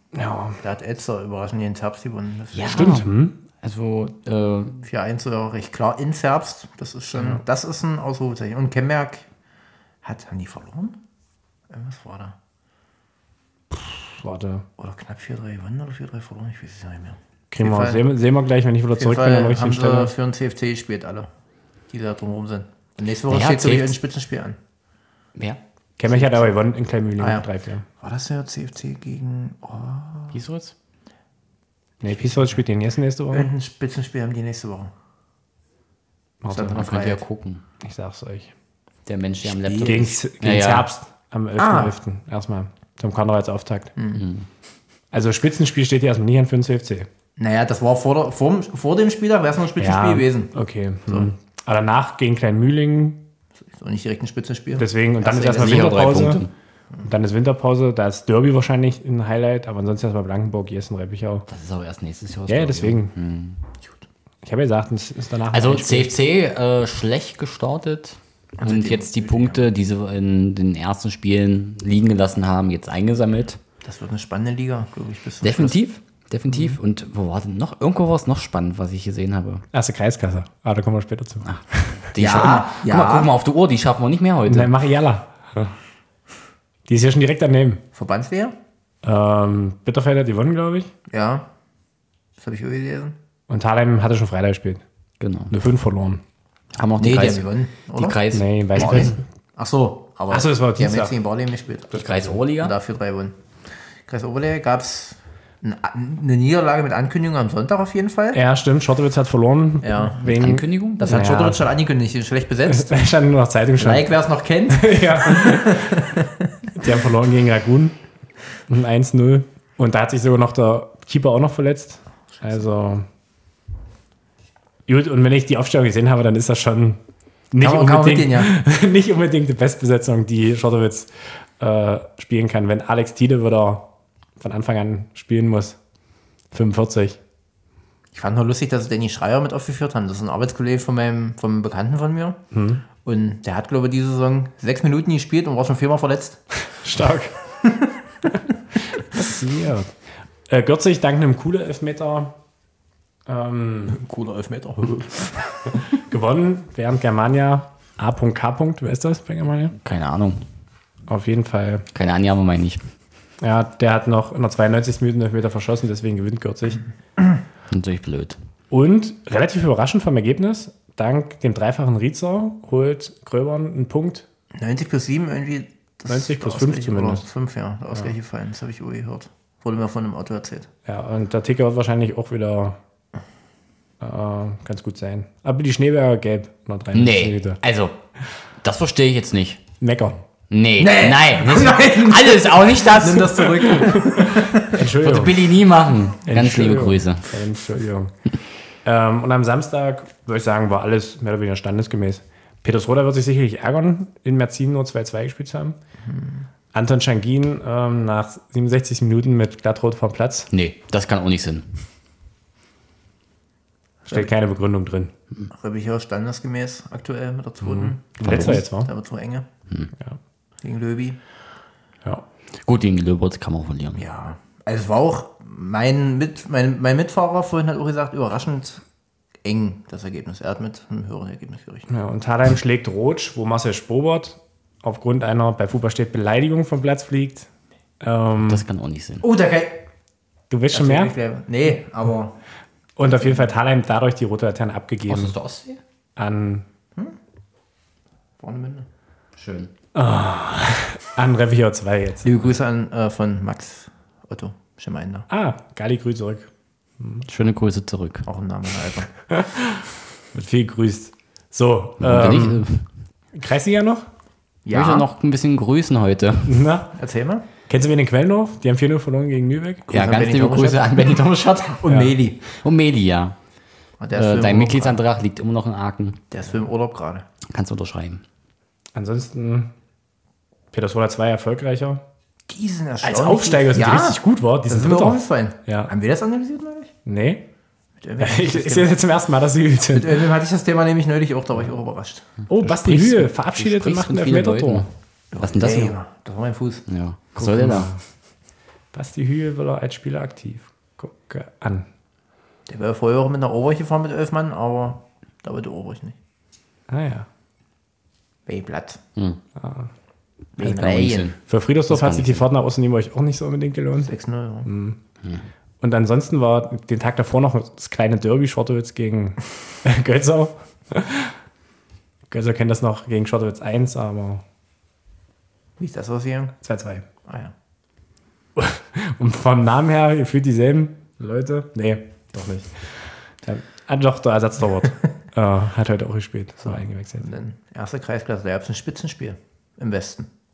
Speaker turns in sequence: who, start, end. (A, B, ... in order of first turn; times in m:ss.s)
0:00.1-0:00.6 A
0:00.6-0:03.0 B
0:02.5-0:04.8 C
0:02.7-0:03.4 A
0:04.8-0:09.3 B
0:10.0-0:11.0 B
0:11.7-0:12.4 B
0:13.7-0:14.6 A
0:14.8-0:18.1 B
0:17.5-0:20.1 A
0:19.0-0:21.3 B
0:21.9-0:24.6 B
0:23.3-0:24.0 C
0:25.4-0:26.4 C
0:26.0-0:27.9 A
0:27.2-0:27.4 B
0:28.0-0:30.4 B
0:30.3-0:30.8 C
0:32.0-0:33.5 A
0:32.2-0:32.5 B
0:33.3-0:34.9 B
0:36.4-0:36.8 A
0:36.5-0:37.2 B
0:36.5-0:37.6 C
0:37.8-0:38.5 A
0:39.1-0:40.9 C
0:39.4-0:40.1 B
0:39.8-0:43.9 A
0:41.6-0:42.0 B
0:44.0-0:44.2 B
0:44.2-0:44.5 C
0:45.1-0:47.1 A
0:47.4-0:50.5 B
0:49.8-0:53.2 A
0:53.7-0:56.3 B
0:54.8-0:56.4 A
0:55.5-0:56.5 C
0:57.0-1:01.5 A
1:01.5-1:03.6 C
1:02.5-1:03.1 A
1:04.4-1:06.1 A
1:05.5-1:13.6 C
1:08.6-1:09.6 B
1:13.8-1:15.8 B
1:15.4-1:19.6 C
1:19.7-1:22.0 A
1:21.4-1:24.7 C
1:22.2-1:23.3 B
1:24.5-1:25.7 A
1:26.9-1:27.8 A
1:28.0-1:28.6 B
1:29.0-1:30.9 A
1:31.1-1:31.5 B
1:32.4-1:33.2 B
1:33.5-1:34.8 A
1:35.2-1:35.5 C
1:35.5-1:36.2 A
1:36.8-1:39.2 C
1:37.0-1:38.2 B
1:38.3-1:39.2 A
1:38.8-1:43.4 B
1:40.3-1:41.1 A
1:41.9-1:42.8 C
1:44.1-1:48.4 B
1:48.3-1:51.6 A
1:49.8-1:50.2 B
1:50.2-1:51.3 C
1:51.0-1:53.1 B
1:52.7-1:54.1 A
1:53.8-1:56.7 B
1:54.7-1:56.1 A
1:56.8-1:58.0 A
1:58.7-2:03.1 A
2:02.3-2:02.6 B
2:04.9-2:07.0 A
2:07.5-2:13.9 A
2:07.6-2:08.5 B
2:14.4-2:15.8 A
2:16.5-2:17.2 A
2:18.1-2:22.4 B
2:22.5-2:22.8 A
2:23.0-2:26.4 B
2:26.8-2:27.3 A
2:27.6-2:27.9 B
2:29.1-2:29.9 A
2:30.5-2:32.4 A
2:33.3-2:34.0 A
2:33.9-2:35.8 B
2:35.8-2:39.8 A
2:39.8-2:40.4 C
2:41.1-2:41.9 A
2:41.9-2:42.8 C
2:43.4-2:46.8 A
2:47.7-2:48.4 C
2:48.7-2:54.3 A
2:54.6-3:00.7 B
2:56.1-2:57.2 A
3:00.9-3:02.8 A
3:04.0-3:07.6 A
3:06.9-3:08.0 C
3:08.6-3:09.6 C
3:09.8-3:10.2 A
3:10.5-3:13.7 C
3:10.8-3:14.8 B
3:14.1-3:15.5 A
3:14.8-3:17.3 C
3:16.3-3:18.1 A
3:18.8-3:25.8 A
3:26.0-3:26.5 B
3:26.7-3:30.5 A
3:30.5-3:31.7 C
3:34.1-3:35.1 A
3:35.5-3:39.4 B
3:37.6-3:38.9 A
3:38.2-3:38.6 C
3:40.6-3:41.2 B
3:42.6-3:44.0 C
3:44.0-3:48.8 B
3:49.4-3:51.9 B
3:51.9-3:57.5 A
3:58.0-3:58.6 A
3:58.5-3:59.2 C
3:59.2-3:59.8 B
4:00.5-4:01.2 A
4:00.7-4:02.4 B
4:03.0-4:05.4 A
4:03.1-4:03.3 B
4:05.1-4:05.8 C
4:06.2-4:06.6 A
4:08.4-4:08.9 B
4:09.4-4:09.7 C
4:10.0-4:12.3 A
4:12.2-4:15.3 B
4:15.3-4:16.5 A
4:17.0-4:17.2 A
4:17.2-4:18.3 C
4:18.3-4:19.1 B
4:19.3-4:22.7 A
4:22.0-4:22.8 C
4:23.3-4:24.1 A
4:24.7-4:25.1 B
4:24.7-4:26.5 C
4:26.5-4:26.9 A
4:27.0-4:27.4 B
4:27.7-4:29.9 A
4:29.9-4:31.2 B
4:29.9-4:31.8 C
4:31.8-4:32.4 B
4:31.9-4:32.2 A
4:32.5-4:33.4 C
4:34.0-4:35.0 B
4:34.1-4:36.2 C
4:36.3-4:37.2 B
4:37.5-4:38.2 C
4:38.9-4:39.7 A
4:40.7-4:42.0 A
4:42.5-4:46.9 B
4:43.0-4:45.9 A
4:47.1-4:47.5 A
4:48.0-4:48.9 B
4:48.2-4:50.3 A
4:49.9-4:52.4 B
4:52.5-4:54.9 A
4:52.6-4:56.0 C
4:55.3-4:56.8 B
4:56.9-4:57.9 C
4:57.4-4:58.0 A
4:58.9-5:01.9 A
5:02.7-5:06.2 B
5:06.9-5:07.3 A
5:08.5-5:09.0 B
5:09.6-5:09.9 A
5:10.6-5:11.3 B
5:10.6-5:12.4 C
5:11.5-5:14.1 A
5:14.0-5:14.7 B
5:14.7-5:15.0 A
5:15.8-5:21.4 A
5:22.3-5:24.4 A
5:25.8-5:26.6 B
5:26.6-5:27.0 A
5:27.2-5:27.5 B
5:28.6-5:32.8 A
5:33.4-5:37.3 A
5:36.6-5:40.3 B